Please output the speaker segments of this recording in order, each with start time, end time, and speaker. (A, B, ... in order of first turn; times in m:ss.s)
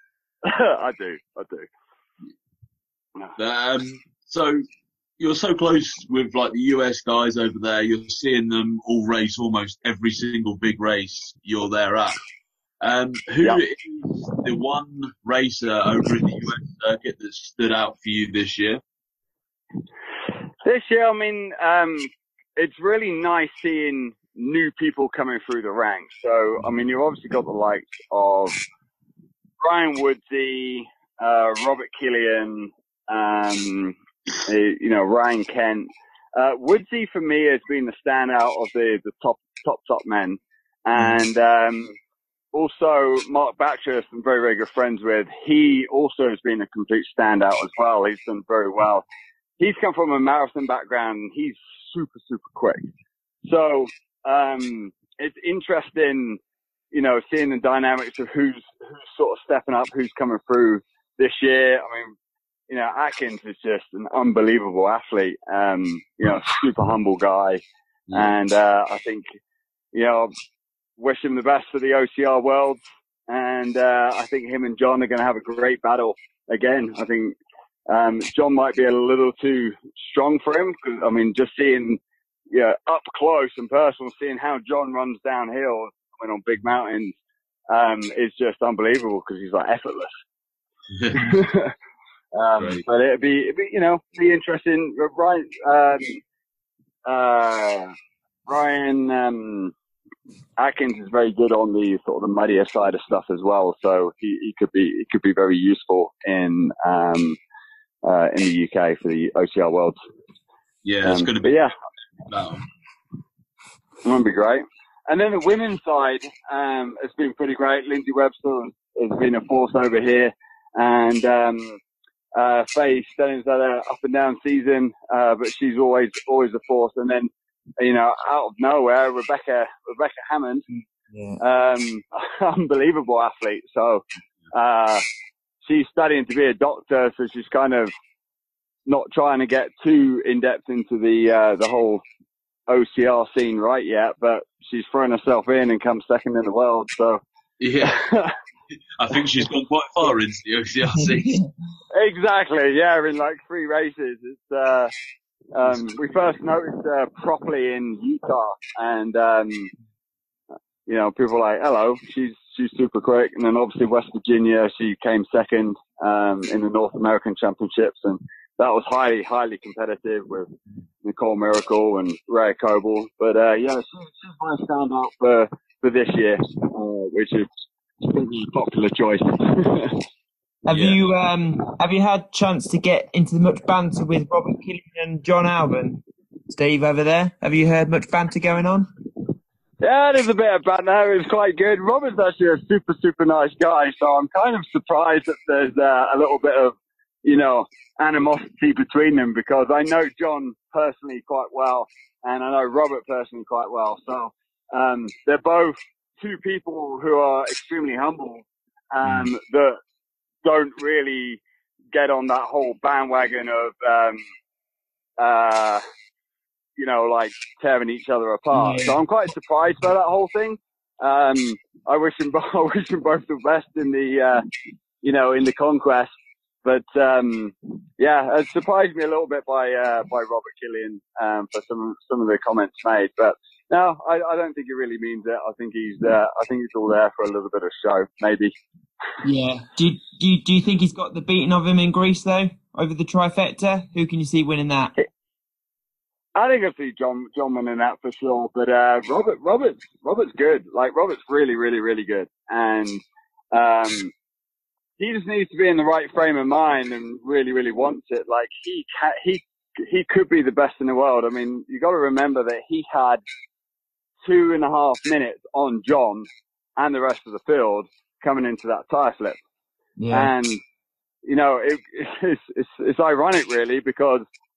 0:00.4-0:01.7 A
0:03.4-0:04.6 B
0:05.2-0:12.2 B
0:12.8-0:18.8 B
0:20.6-0:28.6 A
0:29.6-0:42.0 A
0:42.5-0:49.0 A
0:49.6-0:52.8 A
0:53.4-0:56.4 A
0:56.9-1:02.2 A
1:02.7-1:07.6 A
1:08.1-1:09.2 A
1:09.9-1:10.3 A
1:11.0-1:17.4 A
1:17.9-1:27.1 A
1:27.7-1:30.1 A
1:30.9-1:31.4 B
1:31.1-1:31.7 A
1:32.3-1:36.2 A
1:37.0-1:37.9 A
1:38.5-1:39.7 A
1:40.6-1:47.4 A
1:48.0-1:50.0 A
1:50.8-1:51.6 B
1:51.0-1:51.7 A
1:52.3-1:52.6 B
1:54.0-2:01.8 A
2:02.3-2:10.7 A
2:10.7-2:11.4 C
2:11.4-2:15.0 A
2:15.6-2:17.9 A
2:18.9-2:22.0 A
2:22.7-2:27.2 A
2:27.6-2:28.0 B
2:27.8-2:28.3 A
2:29.0-2:31.4 B
2:30.9-2:31.5 C
2:31.9-2:34.9 A
2:35.5-2:39.7 A
2:40.9-2:50.5 A
2:51.0-2:57.5 A
2:58.0-3:00.0 A
3:00.6-3:08.9 C
3:00.7-3:01.0 B
3:09.8-3:29.8 A
3:29.0-3:29.3 B
3:30.4-3:31.4 A
3:31.9-3:34.2 A
3:35.2-3:35.8 A
3:36.8-3:44.4 A
3:38.5-3:39.0 C
3:45.0-3:46.1 A
3:46.6-3:58.5 A
3:59.2-4:04.9 C
4:06.3-4:13.0 A
4:13.5-4:14.1 A
4:15.0-4:23.2 A
4:24.2-4:29.4 A
4:30.0-4:30.3 C
4:30.1-4:30.6 A
4:31.2-4:34.2 A